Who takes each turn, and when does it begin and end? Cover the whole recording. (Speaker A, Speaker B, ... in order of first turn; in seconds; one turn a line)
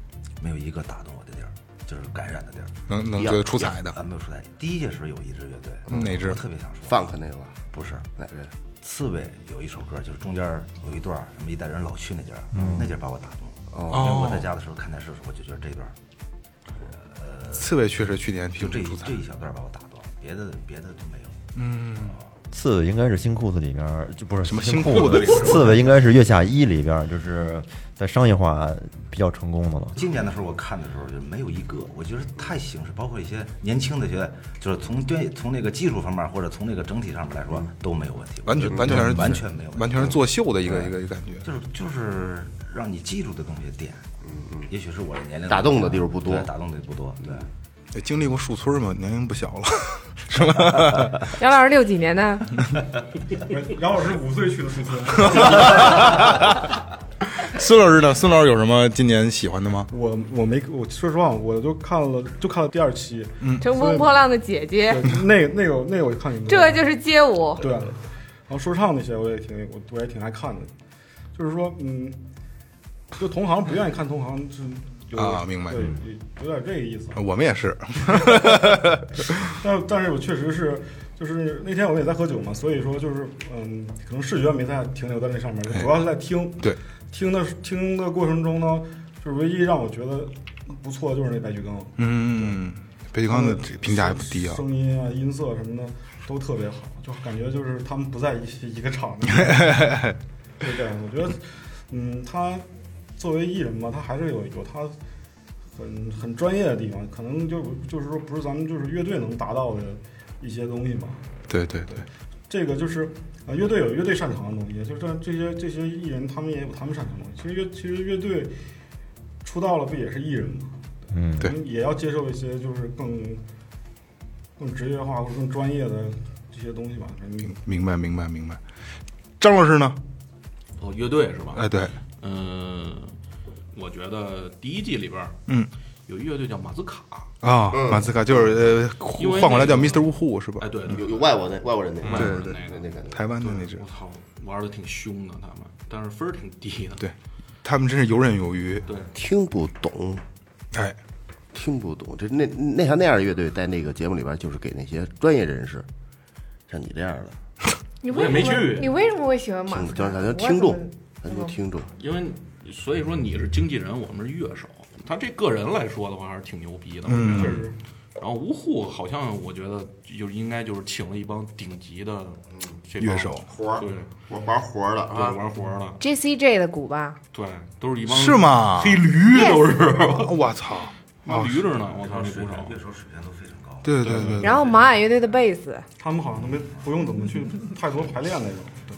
Speaker A: 0.4-2.8
Speaker B: 2.9-3.9
Speaker A: 3.6-7.1
Speaker B: 5.9-6.4
Speaker C: 6.9-7.6
Speaker A: 7.7-8.1
Speaker C: 8.2-8.5
Speaker A: 8.8-15.9
Speaker D: 12.5-12.8
Speaker C: 13.7-14.1
Speaker B: 13.9-14.5
Speaker A: 16.9-17.7
Speaker B: 17.5-19.2
Speaker A: 18.5-21.4
Speaker B: 21.5-22.2
Speaker D: 22.5-30.0
Speaker B: 24.4-25.9
Speaker A: 29.9-40.9
Speaker B: 38.5-41.4
Speaker A: 41.4-44.0
Speaker C: 44.2-44.7
Speaker A: 44.7-47.5
Speaker C: 45.5-46.5
Speaker B: 47.9-51.3
Speaker E: 51.4-52.5
Speaker F: 53.5-56.2
Speaker B: 55.2-56.4
Speaker B: 57.4-59.9
Speaker F: 59.9-64.1
Speaker E: 63.6-65.0
Speaker F: 64.9-66.8
Speaker E: 66.5-67.6
Speaker F: 67.6-70.7
Speaker F: 71.3-72.2
Speaker F: 73.2-77.2
Speaker B: 75.2-75.9
Speaker B: 77.2-79.5
Speaker F: 78.0-78.9
Speaker F: 79.5-92.6
Speaker B: 92.0-94.6
Speaker F: 93.2-100.0
Speaker B: 99.4-100.2
Speaker F: 100.6-105.0
Speaker F: 105.7-111.2
Speaker B: 111.5-112.0
Speaker F: 111.9-118.5
Speaker F: 119.4-123.4
Speaker D: 121.1-121.5
Speaker F: 124.6-127.6
Speaker B: 127.5-128.6
Speaker B: 129.4-130.0
Speaker G: 130.8-133.2
Speaker B: 131.5-131.9
Speaker G: 133.7-135.4
Speaker G: 136.1-137.3
Speaker B: 137.4-140.7
Speaker C: 137.7-138.6
Speaker G: 139.1-141.3
Speaker C: 140.9-143.2
Speaker G: 142.0-147.1
Speaker B: 142.1-142.5
Speaker B: 143.1-143.8
Speaker B: 147.0-148.8
Speaker G: 148.8-149.1
Speaker C: 149.1-150.2
Speaker C: 151.5-155.8
Speaker C: 156.7-157.4
Speaker E: 158.0-161.5
Speaker G: 158.1-158.9
Speaker C: 159.7-161.9
Speaker G: 161.9-174.1
Speaker B: 167.1-167.6
Speaker F: 167.3-167.7
Speaker B: 173.0-173.4
Speaker C: 173.4-175.5
Speaker G: 175.1-176.0
Speaker E: 176.0-177.2
Speaker G: 177.3-180.3
Speaker B: 178.1-179.0
Speaker E: 179.3-179.7
Speaker B: 180.1-181.6
Speaker G: 181.2-182.8
Speaker A: 181.9-184.3
Speaker B: 183.8-184.5
Speaker G: 184.0-184.8
Speaker E: 184.4-185.9
Speaker F: 186.0-188.9
Speaker A: 186.5-186.9